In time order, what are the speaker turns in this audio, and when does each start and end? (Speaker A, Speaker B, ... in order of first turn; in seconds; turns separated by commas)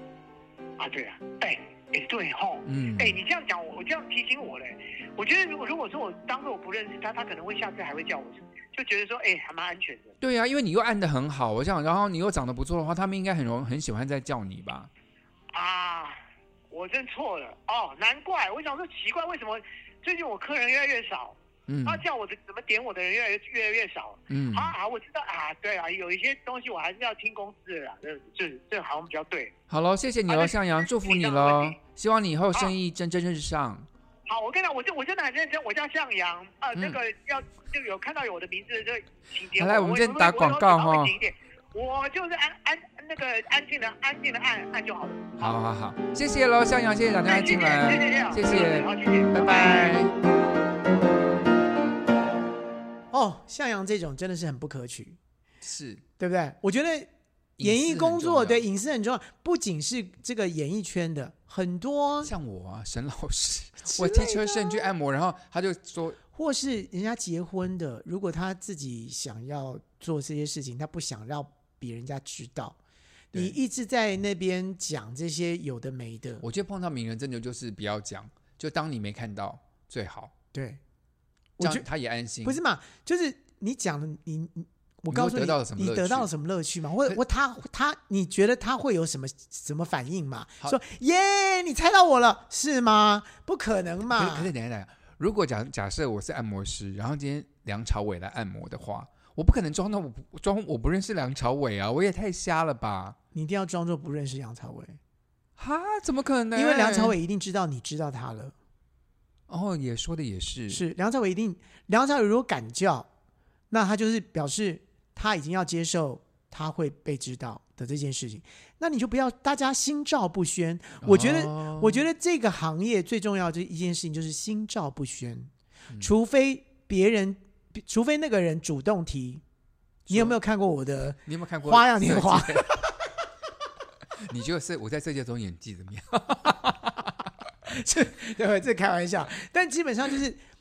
Speaker A: 0.8-10.1, Speaker B: 2.6-3.2, Speaker B: 10.2-14.9, Speaker A: 15.5-16.2, Speaker A: 16.7-29.5, Speaker B: 21.7-22.0, Speaker B: 24.3-24.7, Speaker B: 29.7-33.9, Speaker A: 30.3-31.8, Speaker A: 34.3-45.5, Speaker B: 39.5-41.2, Speaker B: 45.4-50.1, Speaker A: 47.2-50.0, Speaker C: 53.1-55.2, Speaker B: 55.6-56.0, Speaker C: 56.2-57.1, Speaker B: 57.6-58.6, Speaker C: 57.6-62.3, Speaker B: 62.2-66.2, Speaker C: 63.8-64.9, Speaker C: 66.3-72.8, Speaker B: 73.3-73.6, Speaker C: 73.3-76.4, Speaker B: 76.4-80.3, Speaker C: 80.5-80.8, Speaker C: 81.6-81.8, Speaker B: 81.6-82.6, Speaker C: 82.4-94.5, Speaker B: 85.1-86.3, Speaker B: 94.1-103.2, Speaker C: 103.3-105.0, Speaker B: 105.6-107.2, Speaker C: 106.5-108.5, Speaker B: 109.5-110.8, Speaker C: 110.7-113.1, Speaker C: 113.7-129.4, Speaker B: 121.0-122.0, Speaker B: 130.1-130.4, Speaker C: 130.1-132.9, Speaker B: 131.2-132.8, Speaker B: 134.2-137.1, Speaker C: 137.7-140.4